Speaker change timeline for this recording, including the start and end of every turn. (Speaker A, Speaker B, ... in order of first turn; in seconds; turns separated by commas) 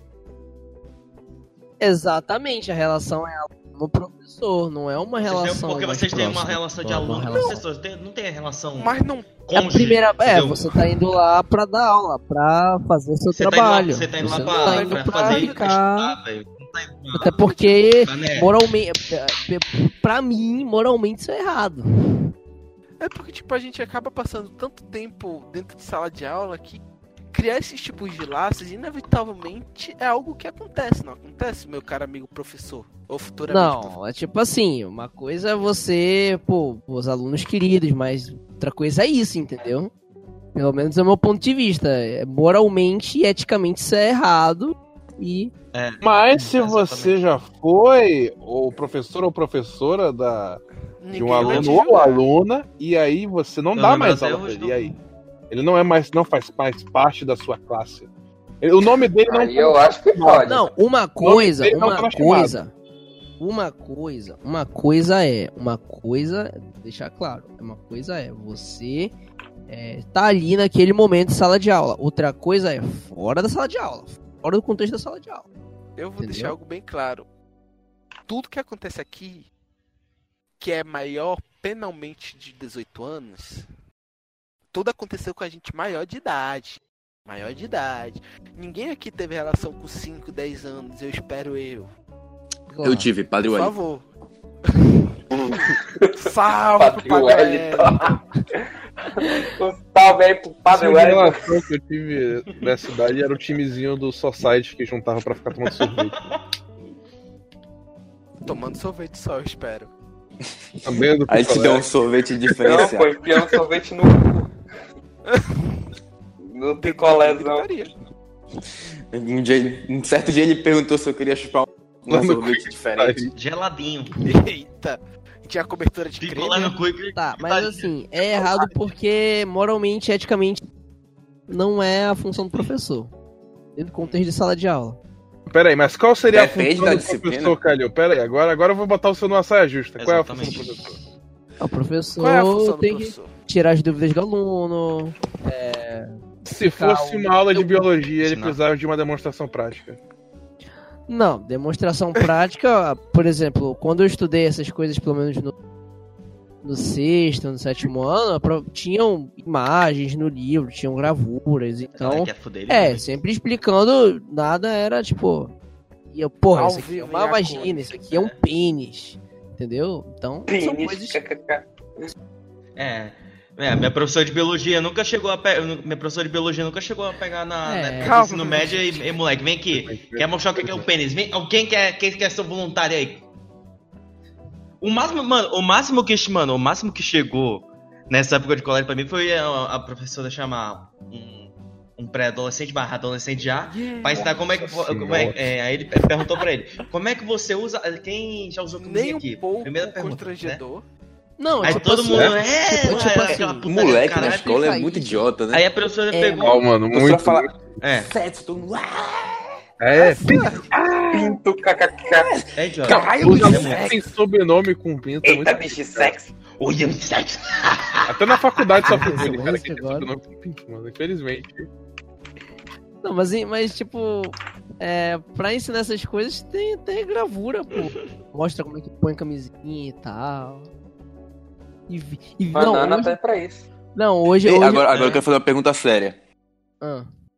Speaker A: 1.8-7.6, Speaker B: 5.2-10.9, Speaker C: 7.3-7.6, Speaker C: 8.8-9.4, Speaker A: 9.5-16.2, Speaker B: 13.3-17.4, Speaker C: 14.3-15.7, Speaker A: 17.1-22.3, Speaker C: 17.4-17.7, Speaker B: 18.0-18.5, Speaker C: 23.0-33.9, Speaker A: 33.5-39.9, Speaker A: 40.5-45.5, Speaker B: 45.7-47.2, Speaker D: 46.0-50.6, Speaker C: 51.0-52.2, Speaker D: 51.1-54.9, Speaker B: 51.4-52.0, Speaker B: 53.7-55.0, Speaker D: 55.5-58.1, Speaker D: 58.6-60.6, Speaker E: 59.3-60.6, Speaker A: 60.4-62.7, Speaker D: 61.2-62.5, Speaker A: 63.4-69.1, Speaker A: 69.7-75.5, Speaker C: 76.0-77.3, Speaker A: 76.2-76.5, Speaker C: 78.3-79.5, Speaker C: 80.6-83.7, Speaker C: 84.7-91.9, Speaker A: 92.7-93.1, Speaker F: 92.8-93.8, Speaker C: 93.4-94.0, Speaker C: 94.7-95.7, Speaker E: 95.8-98.6, Speaker C: 96.2-98.2, Speaker E: 99.2-101.5, Speaker D: 100.7-106.2, Speaker B: 105.7-106.4, Speaker C: 108.4-109.9, Speaker D: 110.8-111.8, Speaker F: 111.3-113.2, Speaker E: 112.6-114.5, Speaker C: 115.3-115.7, Speaker E: 116.5-117.7, Speaker C: 116.8-117.9, Speaker F: 119.1-123.3, Speaker D: 122.1-123.3, Speaker B: 123.3-124.2, Speaker C: 124.2-126.8, Speaker B: 126.2-128.4, Speaker A: 127.2-130.7, Speaker A: 131.5-133.1, Speaker A: 133.8-135.0, Speaker D: 135.5-141.0, Speaker F: 136.3-137.6, Speaker B: 140.0-140.7, Speaker A: 140.4-141.1, Speaker A: 141.6-147.6, Speaker C: 142.2-143.3, Speaker D: 146.4-150.0, Speaker B: 148.2-148.6, Speaker A: 151.1-155.5, Speaker A: 156.6-165.5, Speaker B: 162.0-163.1, Speaker A: 166.1-171.2, Speaker C: 166.5-168.3, Speaker E: 170.5-171.7, Speaker B: 172.8-183.2, Speaker A: 177.6-178.2, Speaker C: 178.0-179.2, Speaker D: 179.7-180.9, Speaker B: 184.8-200.6, Speaker C: 193.7-194.3, Speaker D: 194.7-195.5, Speaker C: 198.8-200.8, Speaker A: 201.4-205.3, Speaker B: 201.6-204.5, Speaker D: 202.1-202.4, Speaker F: 203.6-205.7, Speaker B: 205.5-206.6, Speaker A: 206.1-206.6, Speaker D: 206.4-207.5, Speaker F: 206.9-207.6, Speaker B: 207.8-208.1, Speaker F: 208.1-209.4, Speaker D: 209.8-211.4, Speaker C: 209.9-210.6, Speaker E: 211.1-212.3, Speaker B: 212.5-214.0, Speaker F: 212.8-213.9, Speaker D: 213.2-216.1, Speaker E: 215.2-216.3, Speaker B: 216.6-219.3, Speaker D: 218.1-221.7, Speaker A: 218.9-220.1, Speaker A: 223.0-230.7, Speaker A: 231.9-233.2, Speaker E: 232.5-233.6, Speaker A: 233.9-234.9, Speaker F: 234.4-236.2, Speaker B: 234.9-235.2, Speaker A: 236.8-237.1